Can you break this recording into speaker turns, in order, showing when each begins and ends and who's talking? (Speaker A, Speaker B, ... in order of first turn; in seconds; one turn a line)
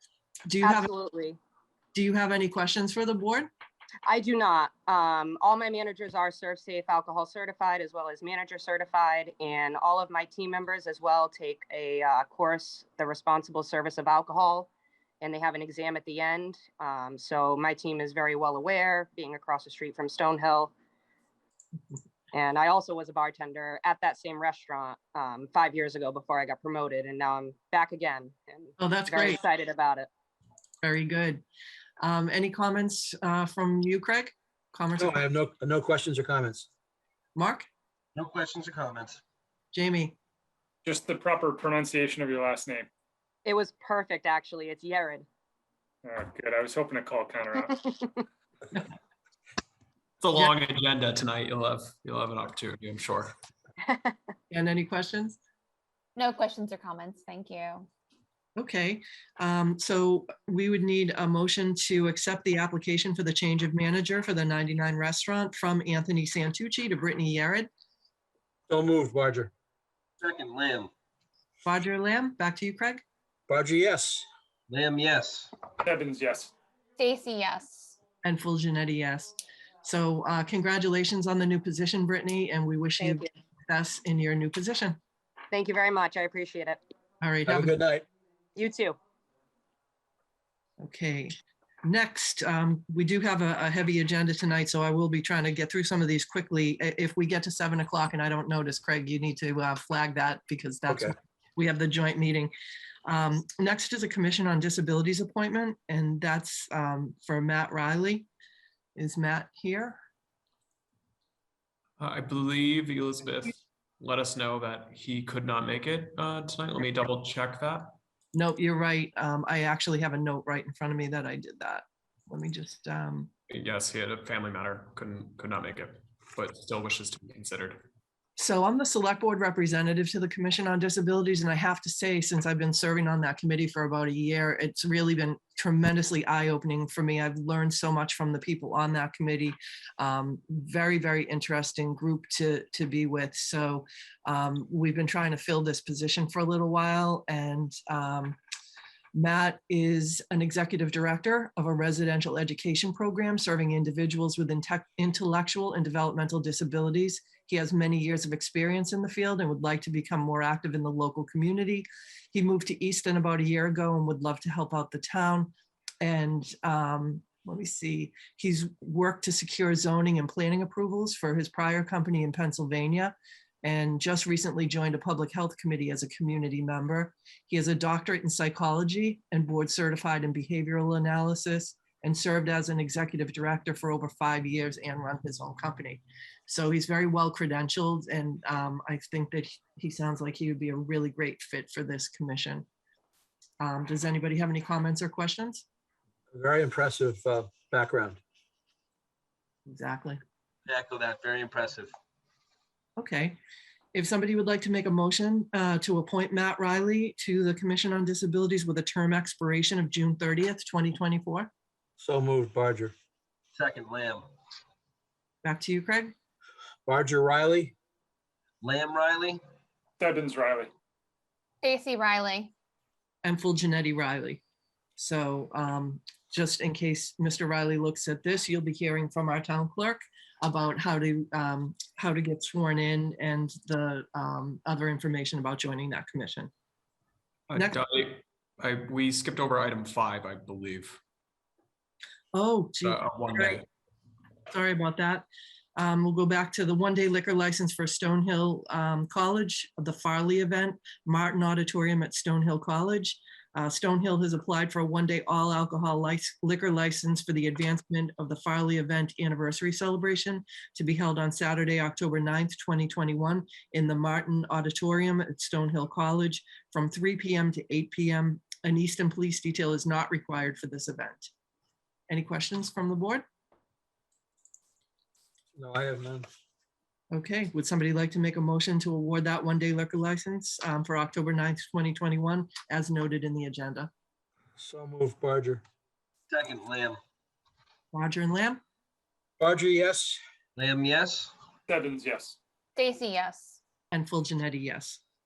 Speaker A: 0.5-0.9
Speaker B: 0.6-1.4
Speaker A: 1.9-3.5
Speaker B: 4.0-14.7
Speaker B: 15.2-20.7
Speaker B: 22.3-30.1
Speaker A: 28.8-29.4
Speaker A: 30.8-31.4
Speaker A: 32.0-35.2
Speaker C: 35.0-36.7
Speaker A: 37.4-37.6
Speaker D: 38.1-39.2
Speaker A: 39.7-40.1
Speaker E: 40.8-42.9
Speaker B: 43.5-45.2
Speaker E: 46.0-47.7
Speaker F: 50.2-53.3
Speaker B: 53.9-54.1
Speaker A: 54.5-55.4
Speaker G: 56.1-57.9
Speaker A: 58.5-67.7
Speaker C: 68.7-69.5
Speaker D: 70.2-70.9
Speaker A: 71.6-73.0
Speaker C: 73.5-74.2
Speaker D: 74.7-75.5
Speaker E: 75.8-76.5
Speaker G: 77.0-78.0
Speaker A: 78.2-85.0
Speaker B: 83.0-83.3
Speaker B: 85.5-86.8
Speaker A: 87.2-87.8
Speaker C: 87.5-88.0
Speaker B: 88.5-89.0
Speaker A: 90.8-102.5
Speaker C: 100.9-101.1
Speaker A: 103.0-108.3
Speaker A: 109.0-110.0
Speaker F: 112.0-118.0
Speaker A: 118.3-123.3
Speaker F: 123.5-127.8
Speaker A: 128.4-148.4
Speaker A: 149.1-165.5
Speaker A: 166.0-192.7
Speaker A: 193.6-195.6
Speaker C: 196.3-198.2
Speaker A: 199.7-200.2
Speaker D: 200.7-201.9
Speaker A: 203.0-203.4
Speaker A: 203.9-211.5
Speaker C: 212.0-212.9
Speaker D: 213.5-214.2
Speaker A: 215.4-216.1
Speaker C: 216.8-217.7
Speaker D: 218.6-219.4
Speaker E: 220.0-220.7
Speaker G: 221.6-222.5
Speaker A: 223.2-224.4
Speaker A: 225.0-236.5
Speaker F: 237.5-241.0
Speaker A: 237.5-237.8
Speaker A: 242.3-243.6
Speaker F: 242.8-243.6
Speaker A: 244.5-271.3
Speaker A: 272.1-273.2
Speaker C: 275.5-276.3
Speaker A: 277.1-283.9
Speaker C: 284.6-285.6
Speaker D: 286.3-287.0
Speaker A: 287.9-288.6
Speaker C: 289.4-290.2
Speaker D: 290.6-291.3
Speaker E: 291.7-292.4
Speaker G: 292.8-293.6
Speaker A: 293.9-295.0